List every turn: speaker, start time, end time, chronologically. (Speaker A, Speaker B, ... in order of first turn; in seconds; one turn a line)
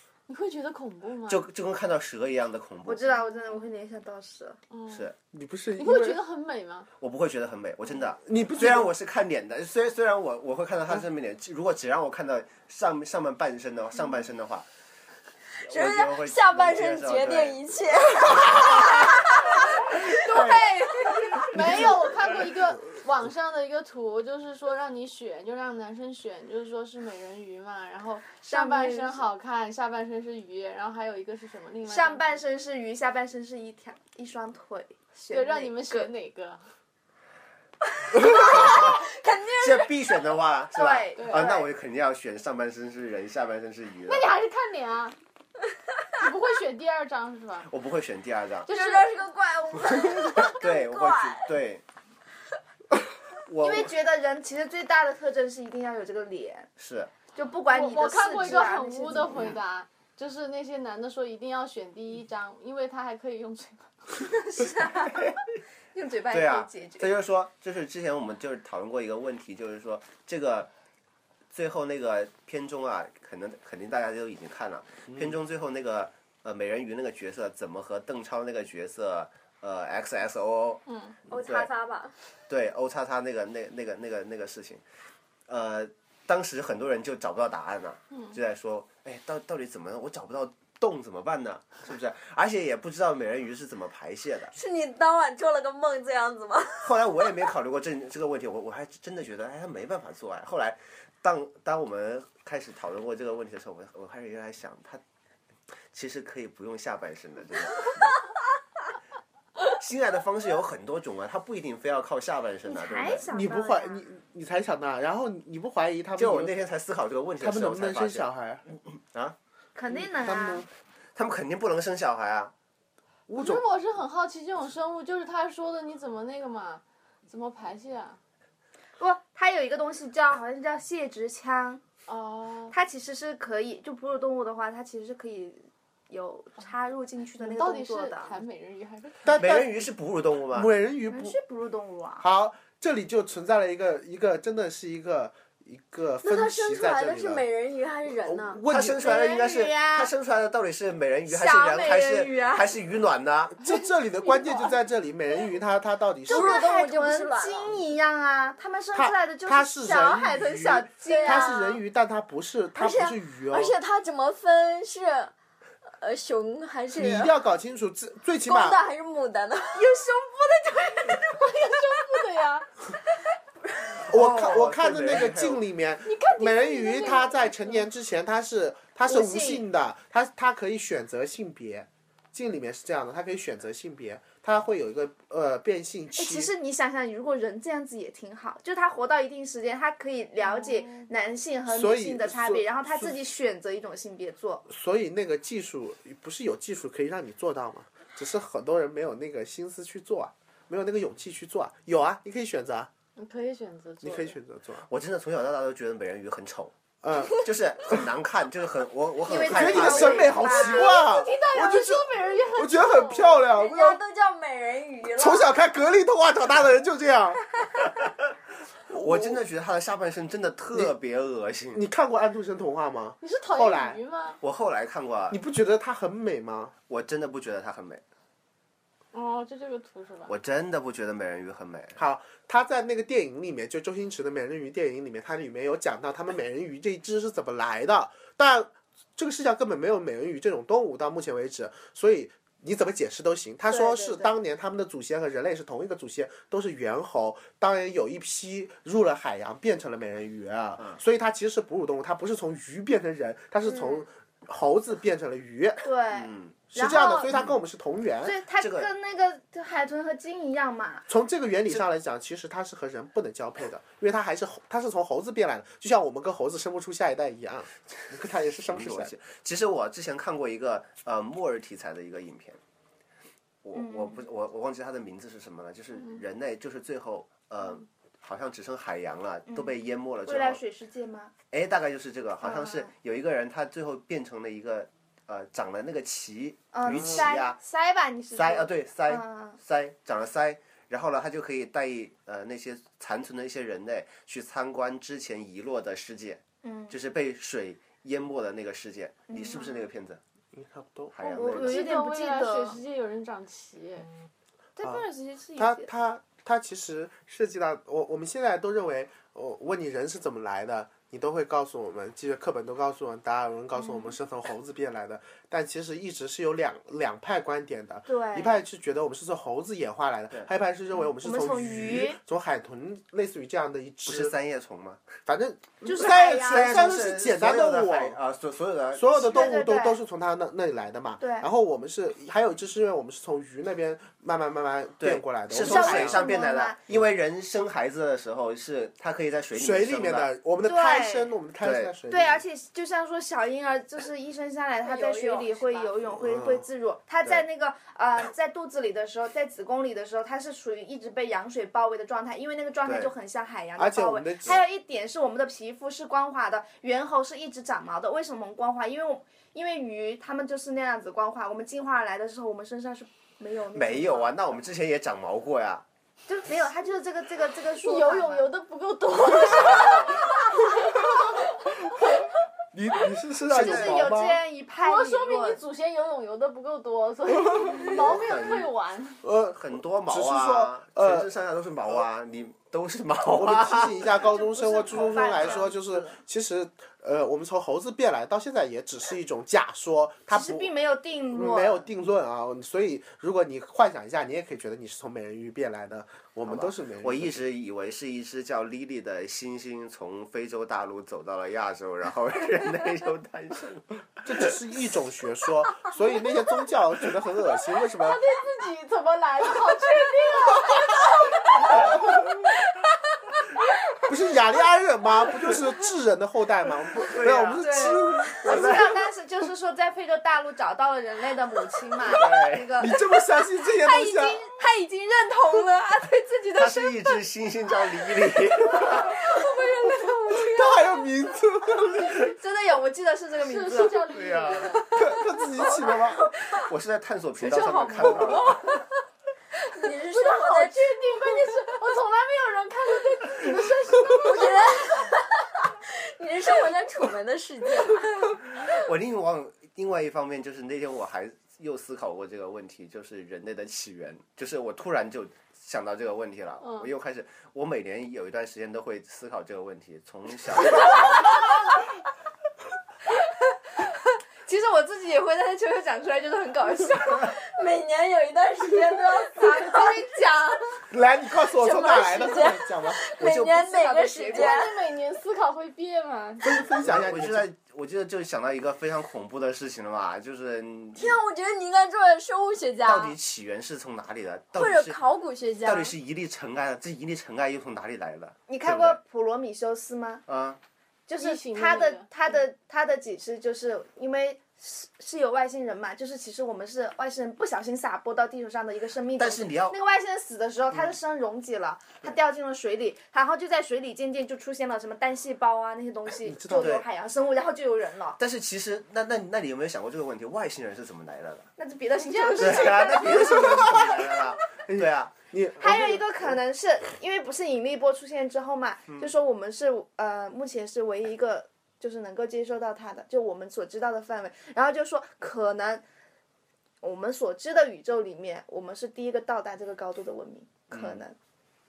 Speaker A: 0.3-1.4
Speaker B: 1.3-3.1
Speaker C: 2.9-4.6
Speaker A: 4.7-5.1
Speaker D: 5.3-6.2
Speaker A: 5.8-6.9
Speaker B: 7.0-14.7
Speaker D: 8.2-8.9
Speaker E: 15.6-20.5
Speaker B: 15.7-17.6
Speaker B: 18.3-19.2
Speaker B: 19.7-20.7
Speaker C: 19.7-21.8
Speaker A: 21.4-32.4
Speaker B: 21.6-22.3
Speaker C: 28.5-29.2
Speaker C: 31.9-36.1
Speaker A: 35.3-36.6
Speaker E: 38.1-40.2
Speaker B: 38.4-39.0
Speaker B: 39.6-44.3
Speaker C: 40.8-41.7
Speaker A: 41.2-41.5
Speaker A: 44.1-45.1
Speaker A: 46.2-47.7
Speaker B: 47.7-48.7
Speaker A: 48.7-49.1
Speaker E: 48.7-51.5
Speaker B: 50.4-51.8
Speaker B: 53.5-53.9
Speaker C: 53.6-56.7
Speaker B: 56.8-57.1
Speaker C: 57.4-59.5
Speaker A: 57.7-64.2
Speaker B: 59.2-59.6
Speaker C: 64.2-65.3
Speaker B: 65.1-65.4
Speaker C: 65.9-67.1
Speaker B: 66.3-70.7
Speaker B: 71.5-80.8
Speaker A: 80.9-81.2
Speaker E: 81.3-82.2
Speaker B: 82.5-84.8
Speaker B: 85.5-94.5
Speaker A: 88.1-88.4
Speaker E: 94.5-97.1
Speaker B: 96.8-105.0
Speaker B: 105.9-108.1
Speaker B: 109.7-113.3
Speaker C: 112.7-114.0
Speaker D: 113.3-116.6
Speaker B: 116.2-119.4
Speaker D: 117.4-118.7
Speaker C: 119.8-120.7
Speaker D: 119.9-120.7
Speaker B: 121.2-122.5
Speaker D: 123.3-123.6
Speaker A: 123.3-128.2
Speaker C: 129.0-131.8
Speaker A: 132.1-132.8
Speaker C: 132.7-138.3
Speaker A: 137.4-139.4
Speaker D: 139.2-139.8
Speaker B: 139.3-140.7
Speaker D: 140.5-141.4
Speaker C: 141.1-142.2
Speaker D: 142.2-147.4
Speaker E: 146.2-148.6
Speaker D: 148.2-149.1
Speaker B: 148.7-153.6
Speaker C: 149.0-150.1
Speaker C: 151.3-152.7
Speaker D: 153.6-156.6
Speaker E: 156.3-157.8
Speaker C: 156.3-161.8
Speaker D: 158.9-163.8
Speaker E: 161.1-161.8
Speaker E: 162.8-165.3
Speaker E: 166.0-167.3
Speaker D: 166.9-168.8
Speaker E: 168.5-169.9
Speaker C: 169.8-171.4
Speaker A: 171.2-172.7
Speaker B: 174.1-175.6
Speaker D: 174.1-186.5
Speaker A: 176.1-177.9
Speaker C: 179.1-179.7
Speaker C: 186.2-194.7
Speaker A: 190.5-191.1
Speaker D: 191.7-193.1
Speaker D: 194.7-202.9
Speaker A: 203.2-204.4
Speaker D: 204.0-204.8
Speaker B: 204.9-210.4
Speaker D: 207.0-208.0
Speaker C: 209.2-211.0
Speaker D: 209.4-214.0
Speaker A: 210.5-213.4
Speaker E: 213.5-215.5
Speaker D: 215.2-217.4
Speaker D: 218.9-219.4
Speaker B: 218.9-221.8
Speaker D: 221.7-224.0
Speaker A: 223.2-224.4
Speaker B: 224.4-225.4
Speaker D: 225.3-226.7
Speaker B: 226.9-228.0
Speaker A: 229.1-230.3
Speaker B: 230.3-232.0
Speaker D: 232.0-255.8
Speaker C: 243.7-244.3
Speaker C: 253.7-254.1
Speaker C: 255.8-257.3
Speaker B: 256.1-256.6
Speaker D: 256.7-258.4
Speaker C: 258.2-261.1
Speaker B: 258.6-258.9
Speaker D: 261.1-269.1
Speaker B: 268.7-272.6
Speaker B: 273.6-280.6
Speaker C: 273.8-274.2
Speaker C: 279.5-281.3
Speaker B: 281.5-287.6
Speaker C: 282.4-282.9
Speaker C: 286.7-289.6
Speaker B: 288.3-300.2
Speaker C: 296.6-296.9
Speaker C: 299.3-299.9
Speaker D: 300.5-301.2
Speaker B: 301.1-301.9
Speaker C: 301.2-302.8
Speaker A: 301.5-304.1
Speaker C: 304.8-305.9
Speaker D: 305.6-324.3
Speaker C: 313.8-314.1
Speaker C: 318.1-318.6
Speaker C: 321.1-322.2
Speaker B: 324.1-325.0
Speaker D: 325.3-328.2
Speaker C: 325.9-327.0
Speaker B: 326.1-329.5
Speaker D: 328.9-336.2
Speaker C: 329.2-330.0
Speaker C: 331.2-331.5
Speaker B: 335.0-340.3
Speaker C: 335.5-336.8
Speaker D: 339.6-342.4
Speaker C: 340.6-341.3
Speaker B: 341.6-341.9
Speaker C: 342.1-364.4
Speaker E: 344.8-346.0
Speaker D: 346.2-346.6
Speaker B: 352.9-353.1
Speaker D: 353.8-354.6
Speaker B: 363.7-365.9
Speaker C: 366.3-368.5
Speaker A: 367.8-372.3
Speaker B: 369.6-370.2
Speaker D: 371.9-372.1
Speaker D: 372.7-374.4
Speaker B: 373.5-374.1
Speaker C: 373.5-375.6
Speaker A: 374.8-379.2
Speaker B: 377.7-378.7
Speaker D: 379.2-381.3
Speaker B: 379.6-384.1
Speaker D: 383.3-390.7
Speaker C: 384.1-386.2
Speaker B: 385.4-385.6
Speaker C: 390.3-391.9
Speaker D: 391.3-397.4
Speaker B: 396.5-404.5
Speaker D: 404.2-408.2
Speaker A: 407.9-412.8
Speaker D: 414.1-418.8
Speaker B: 416.9-419.0
Speaker C: 417.6-427.2
Speaker B: 422.1-422.7
Speaker D: 422.8-424.4
Speaker B: 426.6-429.2
Speaker C: 428.2-431.0
Speaker D: 430.3-432.3
Speaker C: 432.1-434.1
Speaker A: 433.4-435.0
Speaker B: 434.1-434.8
Speaker D: 434.9-436.3
Speaker B: 436.5-438.7
Speaker C: 437.5-438.6
Speaker A: 437.9-438.6
Speaker E: 439.7-441.6
Speaker A: 440.1-444.8
Speaker E: 444.1-448.3
Speaker B: 448.7-461.3
Speaker A: 456.6-456.9
Speaker C: 463.3-467.4
Speaker E: 467.2-469.9
Speaker C: 469.3-470.8
Speaker D: 470.9-473.1
Speaker E: 471.6-474.7
Speaker C: 473.2-474.7
Speaker A: 474.3-476.7
Speaker D: 476.4-477.5
Speaker B: 476.8-481.2
Speaker E: 481.0-483.2
Speaker B: 482.9-485.0
Speaker E: 484.6-485.9
Speaker B: 485.6-489.0
Speaker C: 488.5-490.2
Speaker B: 490.3-490.6
Speaker C: 491.1-508.2
Speaker A: 491.2-492.1
Speaker B: 499.2-499.8
Speaker D: 506.2-506.7
Speaker B: 506.5-506.9
Speaker B: 508.2-511.5
Speaker C: 511.6-513.9
Speaker A: 512.0-513.5
Speaker B: 512.4-515.1
Speaker D: 513.0-516.4
Speaker C: 515.6-525.8
Speaker C: 526.8-531.2
Speaker B: 530.7-531.0